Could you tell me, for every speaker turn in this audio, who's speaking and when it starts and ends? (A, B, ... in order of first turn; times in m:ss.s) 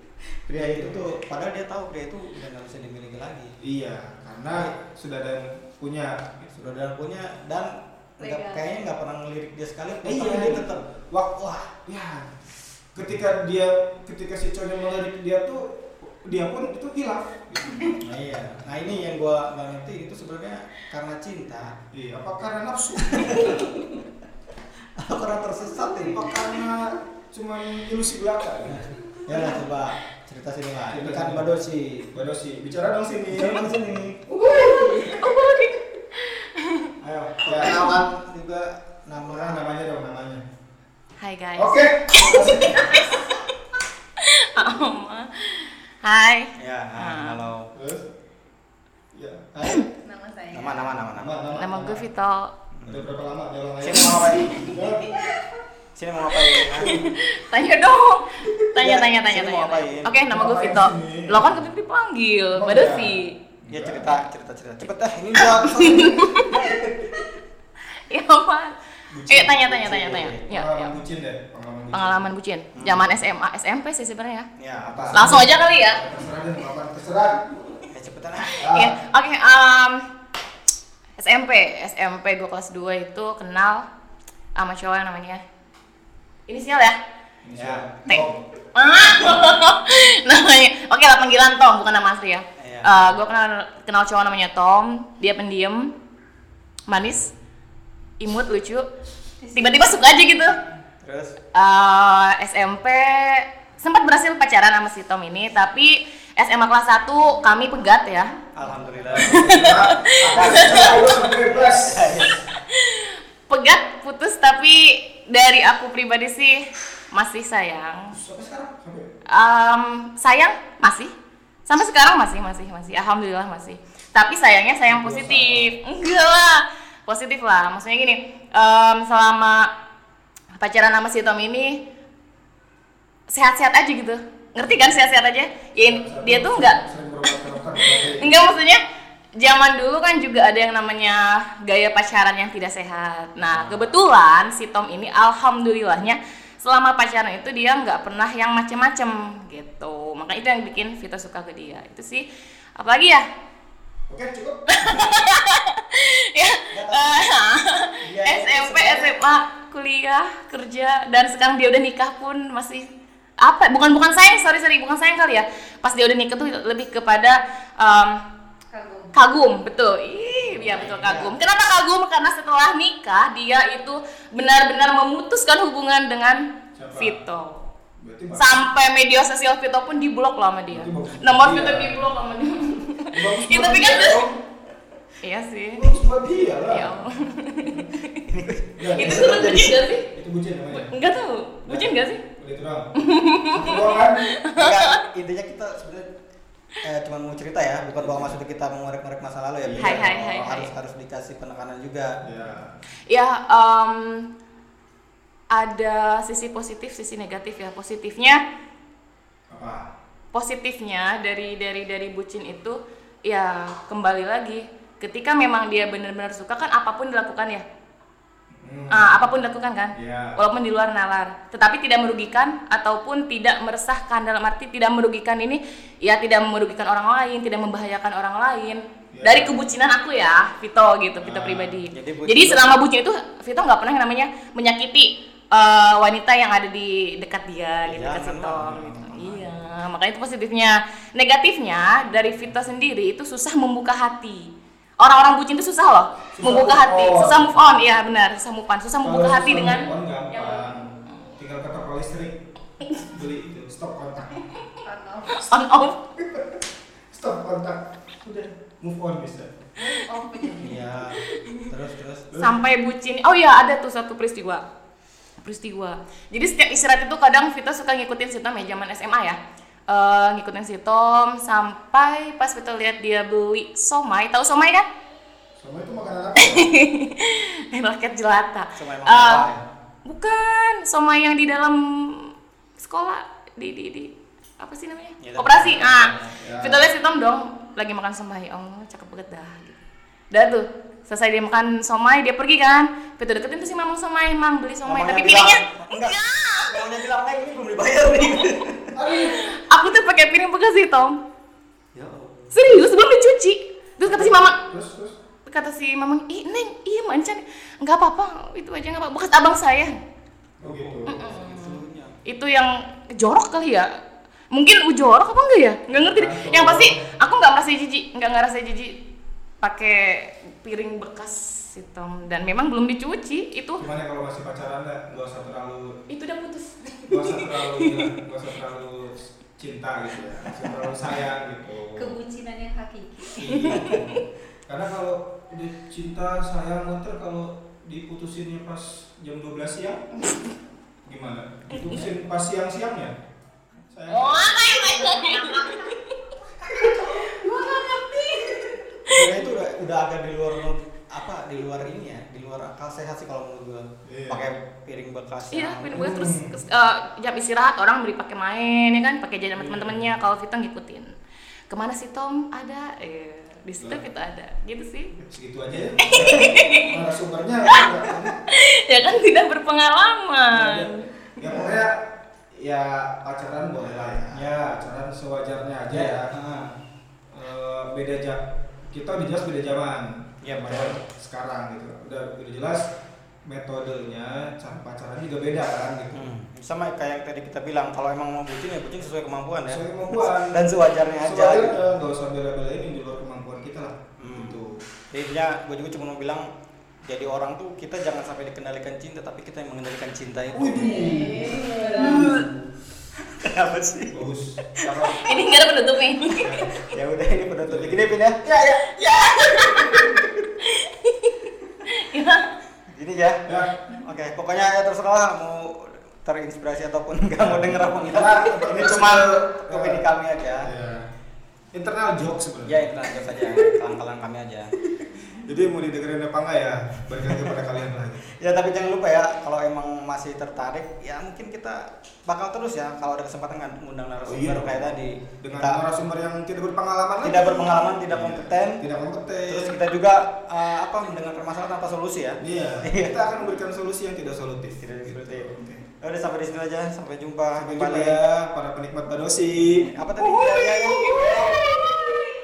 0:00.5-0:03.5 A
0:00.5-0:01.1 B
0:03.6-0:06.4 B
0:06.4-0:11.7 A
0:08.2-0:08.6 C
0:10.0-0:12.3 B
0:13.0-0:18.0 B
0:18.0-0:21.8 A
0:21.9-0:23.7 B
0:23.1-0:23.9 A
0:25.0-0:26.8 A
0:25.9-0:28.9 B
0:28.7-0:32.1 A
0:30.9-0:31.5 B
0:32.1-0:33.7 B
0:33.3-0:34.2 A
0:34.4-0:35.0 B
0:34.4-0:36.9 D
0:37.0-0:37.9 B
0:37.3-0:39.6 A
0:39.3-0:40.4 B
0:41.2-0:43.2 D
0:41.6-0:43.0 B
0:44.2-0:47.4 D
0:46.6-0:47.7 A
0:47.7-0:48.1 B
0:49.1-0:49.9 B
0:50.0-0:51.0 C
0:50.5-0:51.3 A
0:51.2-0:52.0 B
0:51.5-0:52.5 D
0:52.8-0:53.1 A
0:52.9-0:55.2 B
0:53.8-0:54.7 A
0:54.3-0:54.6 D
0:55.1-0:55.4 C
0:56.0-0:57.2 A
0:56.6-1:03.4 D
0:56.8-0:57.2 B
0:58.8-1:00.2 A
1:00.3-1:01.6 B
1:02.6-1:04.1 B
1:03.7-1:07.2 A
1:05.4-1:06.6 D
1:08.1-1:08.8 D
1:09.1-1:12.3 B
1:09.3-1:11.0 D
1:09.8-1:10.4 A
1:11.9-1:14.5 D
1:12.7-1:13.1 A
1:14.6-1:15.5 A
1:14.9-1:17.5 B
1:15.1-1:16.0 D
1:17.9-1:18.8 A
1:18.5-1:20.1 D
1:18.6-1:18.9 B
1:21.2-1:23.9 D
1:24.6-1:25.4 D
1:26.5-1:27.0 D
1:27.4-1:28.4 B
1:27.5-1:27.9 A
1:28.7-1:35.9 D
1:32.6-1:33.1 A
1:36.9-1:37.3 D
1:38.2-1:38.9 D
1:39.4-1:40.3 C
1:39.6-1:40.6 D
1:41.0-1:41.4 A
1:41.5-1:48.4 D
1:48.5-1:52.6 A
1:48.7-1:49.2 C
1:49.1-1:52.2 B
1:49.2-1:51.0 D
1:52.7-1:58.2 D
1:58.1-1:59.1 B
1:59.3-2:01.1 D
2:01.7-2:09.7 D
2:04.9-2:05.7 B
2:10.6-2:11.8 D
2:13.3-2:16.8 D
2:15.8-2:18.3 B
2:17.8-2:18.8 D
2:19.4-2:32.3 D
2:23.4-2:23.9 A
2:32.8-2:33.3 D
2:34.1-2:35.2 B
2:34.7-2:42.9 D
2:36.7-2:37.3 A
2:38.0-2:39.2 A
2:43.4-2:48.2 D
2:48.7-2:49.2 C
2:49.1-2:57.7 D
2:50.5-2:51.4 A
2:56.8-2:57.2 B
2:58.0-2:58.5 B
2:58.3-3:04.3 D
3:00.7-3:02.0 B
3:03.1-3:04.4 B
3:05.2-3:06.0 D
3:05.8-3:07.1 B
3:06.6-3:08.2 D
3:08.2-3:09.8 A
3:08.8-3:10.9 B
3:09.0-3:10.1 D
3:10.7-3:12.2 D
3:11.7-3:12.9 B
3:13.0-3:15.0 D
3:13.4-3:14.3 B
3:14.6-3:16.1 A
3:16.8-3:22.2 A
3:18.0-3:18.4 B
3:19.6-3:20.3 B
3:19.8-3:20.7 D
3:22.2-3:22.8 B
3:23.1-3:24.3 D
3:25.5-3:28.4 D
3:29.5-3:29.9 B
3:30.3-3:37.6 D
3:38.6-3:39.0 B
3:38.9-4:11.0 D
3:40.0-3:40.4 B
3:49.1-3:49.6 B
3:51.2-3:51.8 B
3:51.9-3:52.8 A
3:57.8-3:59.5 A
3:58.6-3:59.1 B
4:06.3-4:07.8 B
4:09.0-4:14.4 B
4:14.8-4:15.6 C
4:15.4-4:16.0 D
4:16.2-4:16.6 B
4:17.1-4:19.5 B
4:19.8-4:20.9 C
4:20.6-4:22.3 A
4:21.3-4:21.7 D
4:22.3-4:22.6 B
4:22.4-4:24.6 D
4:25.4-4:34.9 D
4:35.6-4:36.7 B
4:36.4-4:39.5 D
4:38.8-4:39.6 A
4:40.0-4:56.8 D
4:45.2-4:46.3 A
4:46.2-4:46.9 B
4:54.8-4:58.9 A
4:59.0-4:59.5 B
4:59.1-5:01.2 D
5:02.0-5:02.6 A
5:02.5-5:04.6 D
5:04.0-5:05.2 B
5:05.5-5:09.9 D
5:10.6-5:11.2 B
5:10.6-5:12.2 A
5:11.1-5:13.9 D
5:14.5-5:19.0 D
5:15.9-5:17.0 B
5:19.6-5:23.8 D
5:23.8-5:26.0 B
5:26.1-5:28.1 D
5:27.1-5:32.2 B
5:32.0-5:33.8 C
5:33.4-5:34.0 B
5:33.4-5:34.2 A
5:33.4-5:34.2 D
5:34.7-5:40.2 B
5:41.1-5:43.2 B
5:41.7-5:42.0 D
5:43.9-5:45.2 B
5:44.1-5:46.2 D
5:47.0-5:49.4 D
5:49.1-5:56.3 A
5:54.0-5:54.5 B
5:55.5-6:01.1 D
5:55.9-5:56.5 B
5:59.6-6:00.2 B
6:01.7-6:05.1 D
6:03.8-6:04.0 B
6:05.2-6:08.4 B
6:06.0-6:06.6 A
6:06.1-6:07.0 D
6:08.5-6:11.6 D
6:10.5-6:16.3 B
6:13.8-6:14.7 A
6:15.9-6:16.7 A
6:17.3-6:22.9 B
6:20.4-6:21.0 A
6:23.5-6:26.3 B
6:26.1-6:31.8 A
6:29.7-6:30.7 B
6:31.2-6:34.8 B
6:34.2-6:34.6 A
6:35.1-6:36.5 A
6:37.1-6:41.0 A
6:40.5-6:42.7 B
6:40.7-6:42.5 C
6:43.3-6:44.2 A
6:44.1-6:45.3 B
6:44.8-6:45.1 A
6:45.1-6:46.6 D
6:46.4-6:46.7 B
6:46.8-6:48.8 A
6:47.6-6:48.2 B
6:48.8-6:52.5 D
6:52.9-6:53.4 A
6:53.4-6:53.8 B
6:54.0-7:00.7 A
6:57.4-7:00.1 B
7:00.6-7:01.1 B
7:01.7-7:02.8 B
7:02.7-7:04.8 A
7:05.4-7:08.3 B
7:08.3-7:15.8 A
7:14.2-7:19.8 B
7:17.2-7:18.8 A
7:19.5-7:23.2 A
7:22.4-7:25.8 B
7:24.8-7:28.5 A
7:27.6-7:29.9 B
7:29.9-7:31.4 A
7:30.5-7:31.6 D